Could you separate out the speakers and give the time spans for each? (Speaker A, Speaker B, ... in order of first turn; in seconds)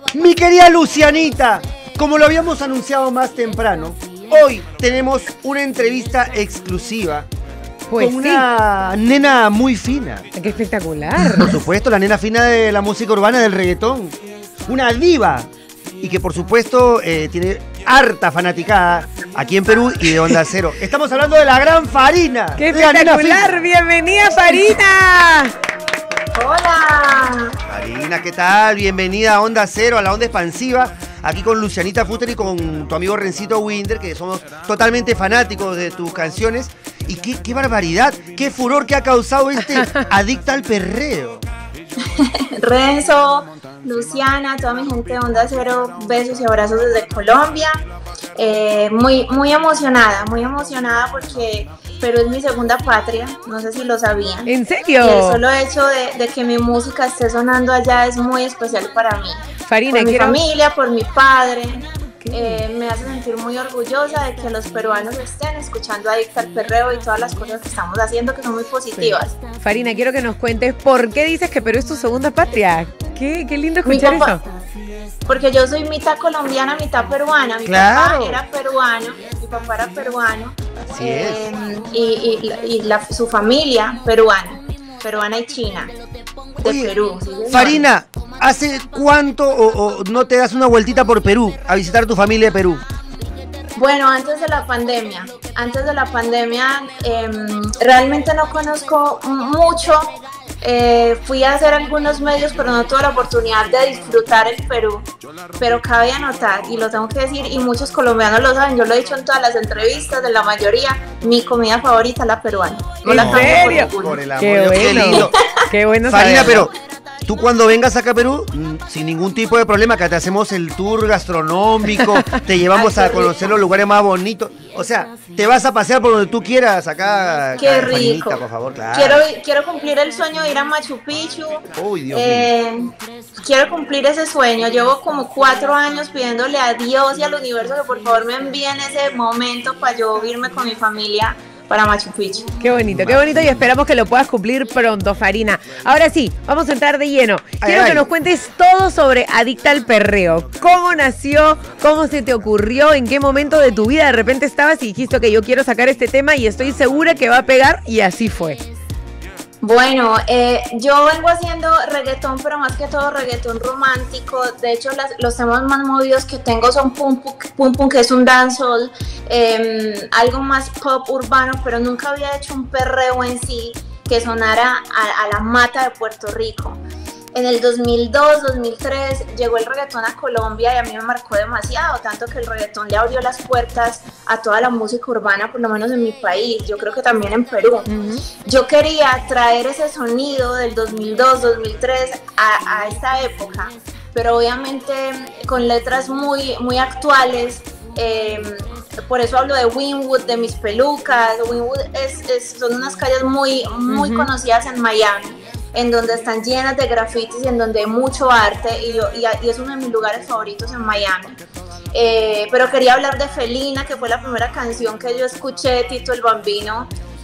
Speaker A: 0.1-7.3, 7.9-10.3, 11.4-14.2, 14.7-15.5, 16.0-23.5, 27.7-41.4, 77.6-78.4, 80.9-81.4, 86.6-86.9, 87.5-92.8, 113.1-115.3, 116.1-116.7, 117.2-129.2, 131.7-132.5, 142.9-143.7, 147.6-148.1
Speaker B: 7.9-8.5, 10.3-11.5, 22.6-25.5, 39.6-40.0, 54.5-55.4, 59.6-60.4, 62.2-62.6, 69.0-74.4, 113.0-116.7, 121.9-122.4, 142.6-158.6, 187.9-188.2, 203.9-204.3
Speaker C: 26.3-27.6, 42.1-47.7, 48.4-69.4, 73.8-74.4, 75.3-85.9, 86.6-87.8, 93.7-105.0, 105.6-114.2, 114.8-115.5, 122.7-123.6, 127.6-142.5, 159.6-176.8, 177.3-187.9, 188.4-211.4, 211.9-216.9